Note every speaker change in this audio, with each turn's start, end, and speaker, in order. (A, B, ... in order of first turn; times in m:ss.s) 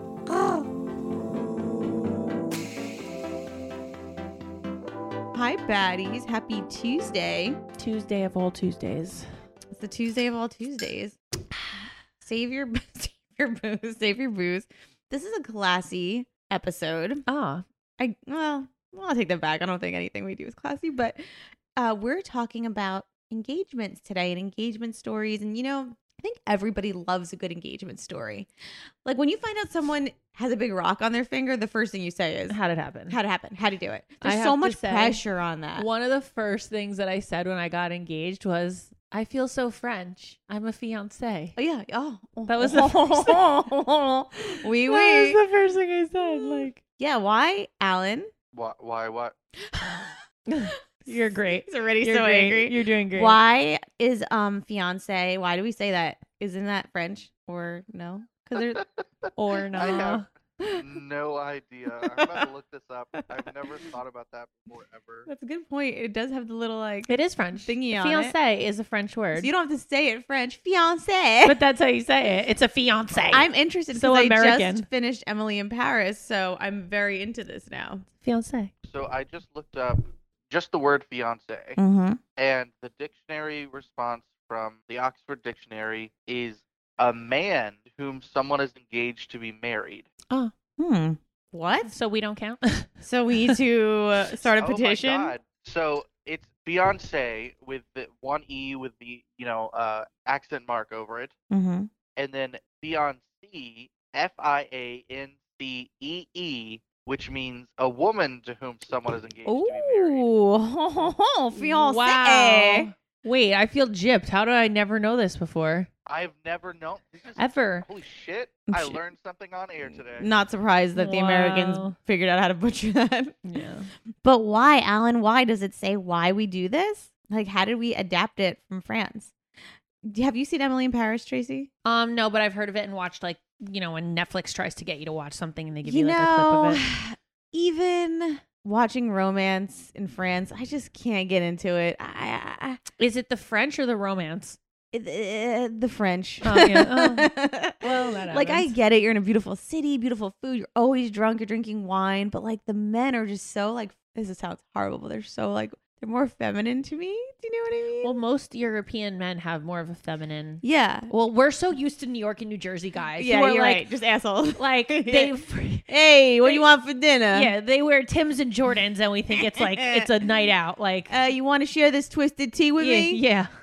0:00.3-0:00.7 A
0:05.3-0:07.6 A
0:07.8-0:09.2 B
0:09.7-0:17.2 A
0:17.2-0:17.6 B
0:18.0-0:21.2 A
0:21.8-0:28.5 A
0:29.0-0:32.6 A
0:32.5-0:33.2 B
0:33.1-0:35.8 A
0:34.2-0:35.2 B
0:35.8-0:41.6 B
0:41.6-0:45.4 A
0:42.5-0:43.4 B
0:44.8-0:46.8 B
0:46.2-0:48.3 A
0:48.5-0:49.3 C
0:49.7-0:50.2 A
0:50.5-0:53.4 B
0:51.0-0:58.8 A
0:58.6-0:58.8 C
0:59.4-1:00.2 B
0:59.8-1:00.1 A
0:59.8-1:00.2 C
1:00.8-1:05.3 C
1:02.0-1:02.5 A
1:05.3-1:08.4 A
1:07.1-1:09.5 B
1:09.4-1:11.6 A
1:11.4-1:14.8 B
1:13.1-1:13.4 C
1:13.3-1:18.0 A
1:18.2-1:18.7 B
1:18.8-1:21.8 C
1:21.8-1:22.2 A
1:22.4-1:30.1 C
1:30.8-1:31.9 A
1:31.8-1:32.9 B
1:33.0-1:35.3 A
1:34.6-1:41.3 C
1:41.5-1:41.9 A
1:42.2-1:50.3 C
1:49.4-1:52.9 A
1:51.5-1:55.9 B
1:56.0-2:00.3 C
1:57.4-1:57.9 B
1:58.7-1:59.0 A
1:59.8-2:03.6 A
2:01.0-2:02.0 B
2:03.4-2:03.9 B
2:04.2-2:09.3 A
2:10.0-2:11.7 A
2:11.8-2:16.8 B
2:15.8-2:22.8 A
2:23.0-2:24.6 B
2:24.9-2:38.1 A
2:26.4-2:28.7 B
2:38.0-2:43.9 B
2:40.6-2:41.1 A
2:43.2-2:45.3 A
2:44.6-2:45.9 B
2:45.9-2:47.5 A
2:47.3-2:51.1 B
2:49.6-2:50.2 A
2:51.1-2:53.2 A
2:52.8-2:53.5 B